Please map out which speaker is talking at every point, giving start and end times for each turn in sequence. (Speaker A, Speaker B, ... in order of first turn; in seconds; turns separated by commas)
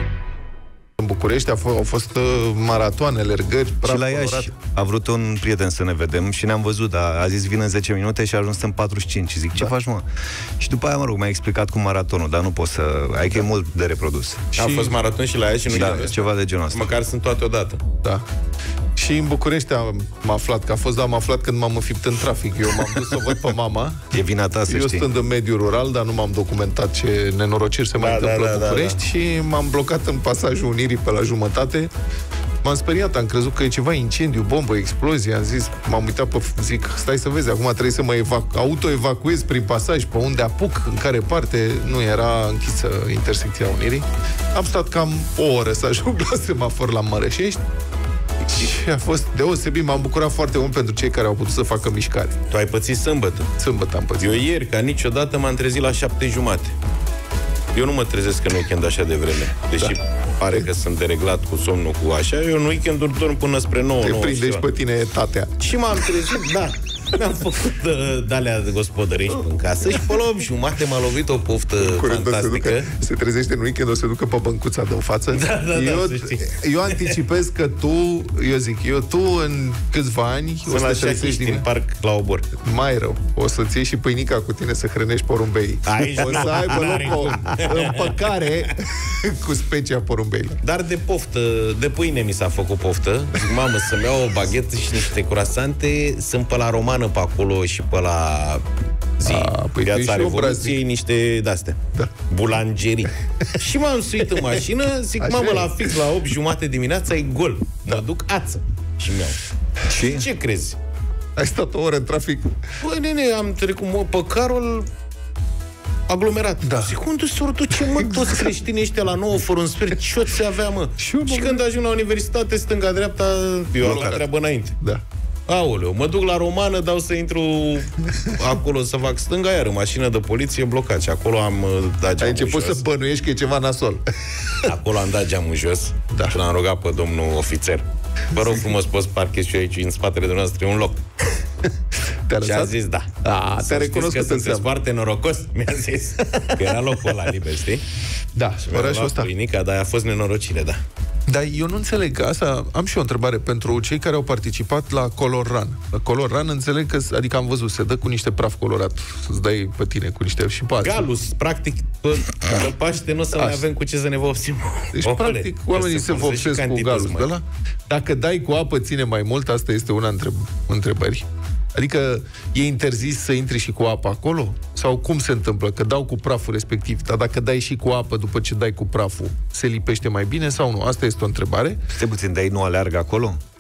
Speaker A: 1.0-4.5, Speaker B: 3.8-10.0, Speaker B: 10.6-14.4, Speaker C: 14.5-17.8, Speaker A: 14.6-15.0, Speaker B: 15.7-16.9, Speaker A: 19.0-31.9, Speaker C: 22.9-23.4, Speaker B: 24.1-25.1, Speaker C: 28.0-29.0, Speaker A: 32.6-47.6, Speaker A: 48.5-52.4, Speaker C: 52.5-53.5, Speaker A: 53.6-54.4, Speaker C: 54.2-56.8, Speaker C: 57.7-64.7, Speaker A: 64.0-66.3, Speaker C: 65.6-72.9, Speaker A: 71.8-81.7, Speaker C: 75.3-77.2, Speaker C: 80.7-82.5, Speaker A: 82.5-90.6, Speaker C: 85.9-88.2, Speaker C: 90.6-98.7, Speaker C: 99.2-109.4, Speaker A: 99.2-100.8, Speaker A: 105.2-105.9, Speaker B: 109.9-110.3, Speaker C: 109.9-110.8, Speaker A: 111.4-112.5, Speaker C: 112.8-114.9, Speaker C: 116.1-124.8, Speaker A: 116.6-117.0, Speaker A: 117.8-118.4, Speaker A: 121.0-121.6, Speaker A: 123.8-124.3, Speaker C: 125.5-132.8, Speaker A: 132.2-134.7, Speaker C: 134.7-141.0, Speaker A: 136.1-136.4, Speaker A: 142.3-144.7, Speaker C: 142.4-147.8, Speaker A: 148.3-149.3, Speaker C: 148.6-150.8, Speaker A: 151.3-161.1, Speaker C: 160.8-167.3, Speaker A: 163.3-163.6, Speaker A: 164.9-181.8, Speaker B: 181.9-183.4